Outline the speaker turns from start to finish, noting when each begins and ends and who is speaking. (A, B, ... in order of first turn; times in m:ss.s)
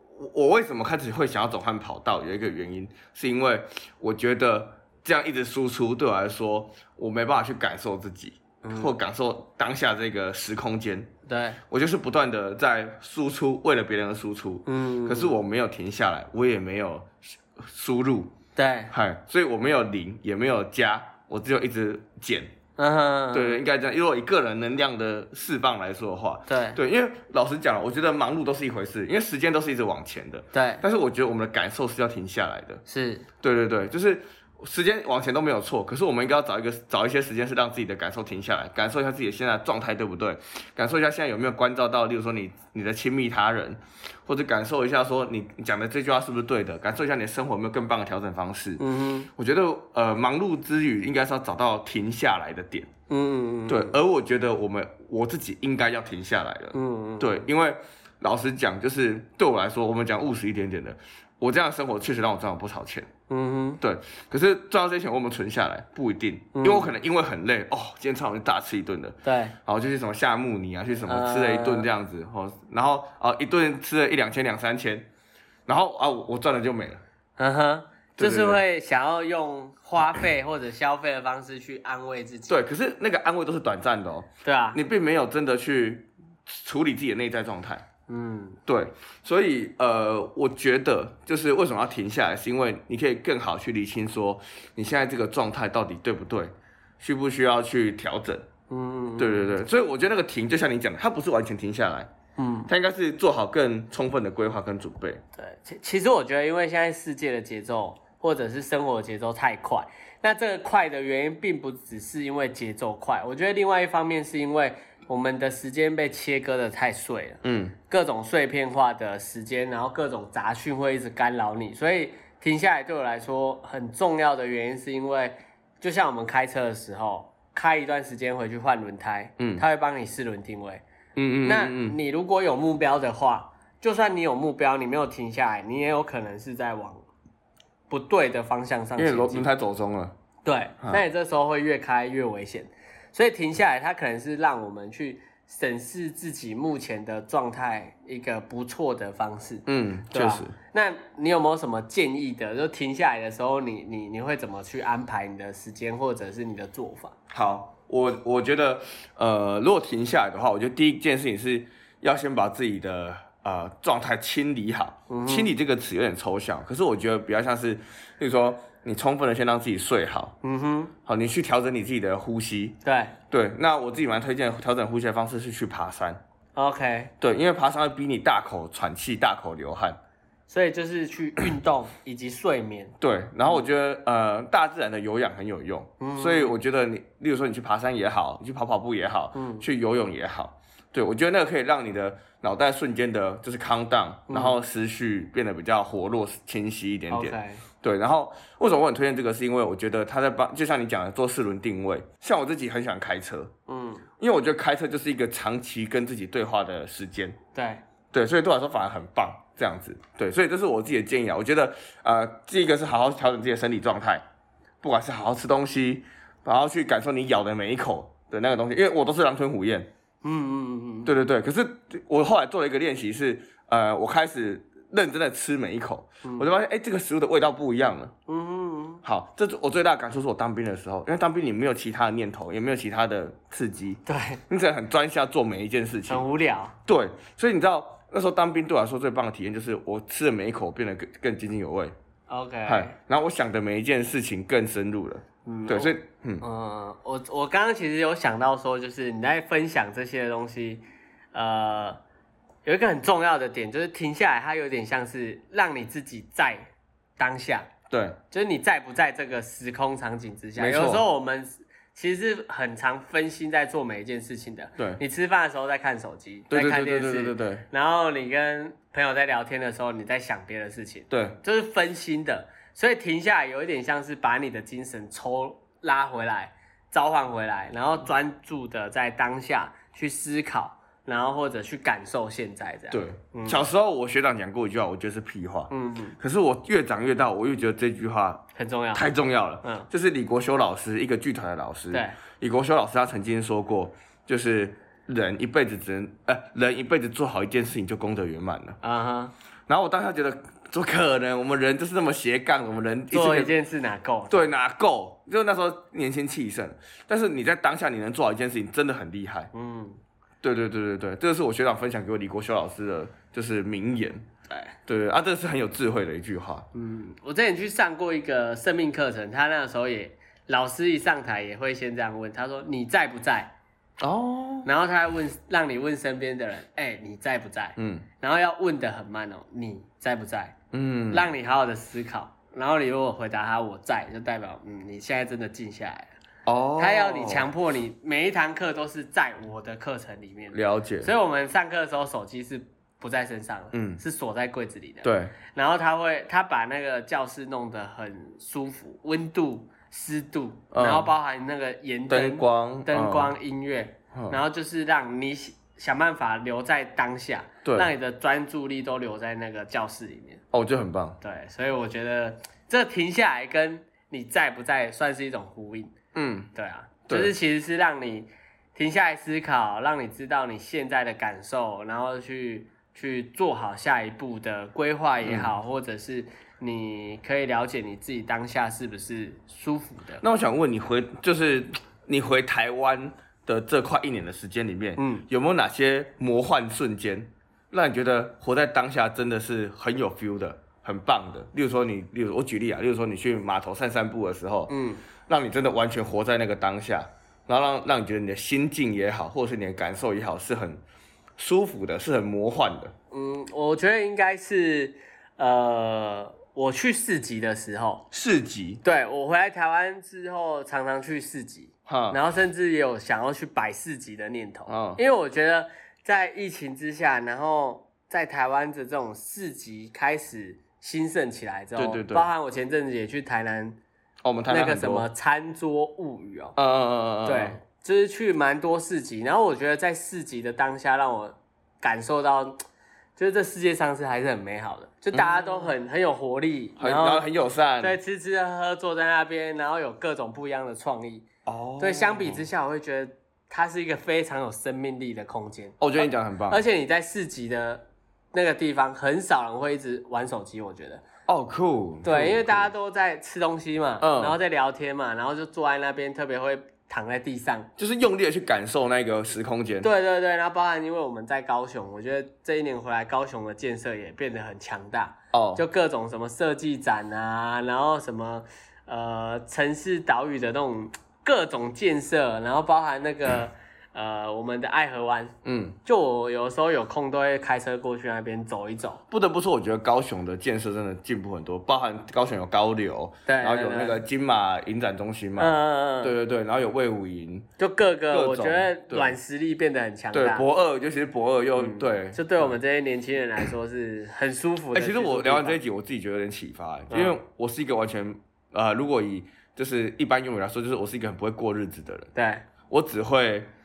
0:00.2-0:11.1 A
0:08.6-0:08.9 B
0:11.2-0:11.6 B
0:11.7-0:18.3 A
0:14.6-0:15.4 B
0:18.6-0:18.9 B
0:18.9-0:22.5 A
0:22.8-0:23.6 B
0:23.3-0:32.8 A
0:26.5-0:26.8 B
0:30.5-0:30.8 B
0:32.9-0:33.2 B
0:33.4-0:48.8 A
0:48.8-0:49.3 B
0:49.4-0:52.9 A
0:53.1-0:54.0 B
0:53.7-1:03.1 A
0:56.7-0:57.4 B
1:03.3-1:03.8 B
1:03.8-1:15.1 A
1:06.5-1:06.9 B
1:09.2-1:09.5 B
1:11.0-1:11.9 B
1:15.7-1:17.0 A
1:17.4-1:22.5 B
1:18.2-1:18.6 A
1:22.5-1:27.8 A
1:24.4-1:24.8 B
1:28.1-1:28.6 B
1:28.7-1:38.5 A
1:38.7-1:39.5 B
1:39.2-1:42.1 A
1:42.4-1:42.7 B
1:42.7-1:45.2 A
1:45.4-2:10.8 B
1:57.4-1:57.8 A
2:09.4-2:09.6 A
2:11.2-2:12.0 A
2:11.4-2:17.0 B
2:17.9-2:19.5 B
2:19.0-2:20.1 A
2:20.4-2:37.1 B
2:29.6-2:30.5 A
2:37.3-2:50.4 A
2:45.1-2:45.5 B
2:50.4-2:50.9 B
2:51.0-2:52.8 A
2:52.8-2:53.1 B
2:53.3-2:56.2 A
2:56.6-2:57.1 B
2:57.2-3:00.0 A
3:00.5-3:02.9 B
3:03.0-3:23.5 A
3:06.0-3:06.6 B
3:09.3-3:09.6 B
3:14.3-3:14.6 B
3:17.1-3:17.6 B
3:23.7-3:24.1 B
3:24.2-3:27.4 A
3:27.5-3:27.8 B
3:28.1-3:34.2 A
3:34.8-3:39.9 A
3:40.2-3:41.1 B
3:41.0-3:48.1 A
3:48.3-3:49.0 B
3:49.0-3:56.2 A
3:54.0-3:54.4 B
3:56.1-3:56.8 B
3:56.9-4:01.9 A
4:02.3-4:02.9 B
4:02.6-4:06.4 A
4:05.4-4:10.8 B
4:11.3-4:12.0 B
4:12.6-4:17.7 B
4:17.9-4:18.2 A
4:18.3-4:43.6 B
4:20.6-4:21.0 A
4:26.5-4:27.6 A
4:31.1-4:31.4 A
4:42.9-4:48.4 A
4:45.7-4:46.2 B
4:48.6-4:49.1 B
4:48.9-4:58.8 A
4:49.6-4:49.9 B
4:51.9-4:52.2 B
4:58.8-4:59.3 B
4:59.7-5:03.5 A
5:03.1-5:04.5 B
5:04.3-5:09.5 A
5:09.5-5:10.0 B
5:10.4-5:14.2 A
5:14.5-5:14.8 B
5:14.9-5:16.6 A
5:16.7-5:23.5 B
5:24.0-5:24.7 A
5:24.6-5:30.6 B
5:27.8-5:28.0 A
5:30.7-5:31.3 A
5:31.1-5:36.1 B
5:36.4-5:37.5 A
5:36.8-6:00.4 B
5:40.5-5:41.1 A
5:43.7-5:44.0 A
5:45.0-5:45.4 A
5:50.7-5:51.1 A
5:52.1-5:53.4 A
5:54.1-5:54.4 A
5:57.6-5:57.9 A
6:00.5-6:01.2 A
6:01.2-6:05.9 B
6:06.1-6:06.5 A
6:06.5-6:20.2 B
6:15.2-6:15.5 A
6:20.2-6:34.7 A
6:25.0-6:25.2 B
6:34.7-6:35.0 B
6:35.3-6:40.8 A
6:41.4-6:42.9 A
6:43.1-6:48.0 B
6:48.1-6:48.8 A
6:48.8-7:03.8 B
6:51.9-6:52.2 A
6:54.7-6:55.0 A
7:01.8-7:02.3 A
7:04.2-7:05.1 A
7:04.5-7:06.6 B
7:06.6-7:07.6 A
7:07.2-7:12.6 B
7:13.2-7:17.3 B
7:15.1-7:15.8 A
7:16.8-7:18.0 A
7:17.8-7:21.3 B
7:21.4-7:22.4 A
7:21.8-7:31.0 B
7:25.8-7:26.6 A
7:31.3-7:32.7 A
7:32.0-7:37.7 B
7:34.0-7:34.4 A
7:37.8-7:39.9 A
7:39.8-7:55.3 B
7:45.3-7:45.6 A
7:55.4-7:55.8 A
7:55.8-7:59.0 B
7:59.1-8:07.5 A
8:03.3-8:04.0 B
8:05.4-8:06.1 B
8:07.6-8:10.4 B
8:08.1-8:09.2 A
8:10.1-8:12.5 A
8:11.6-8:15.6 B
8:14.7-8:22.1 A
8:16.9-8:17.2 B
8:22.1-8:22.4 B
8:22.7-8:23.5 A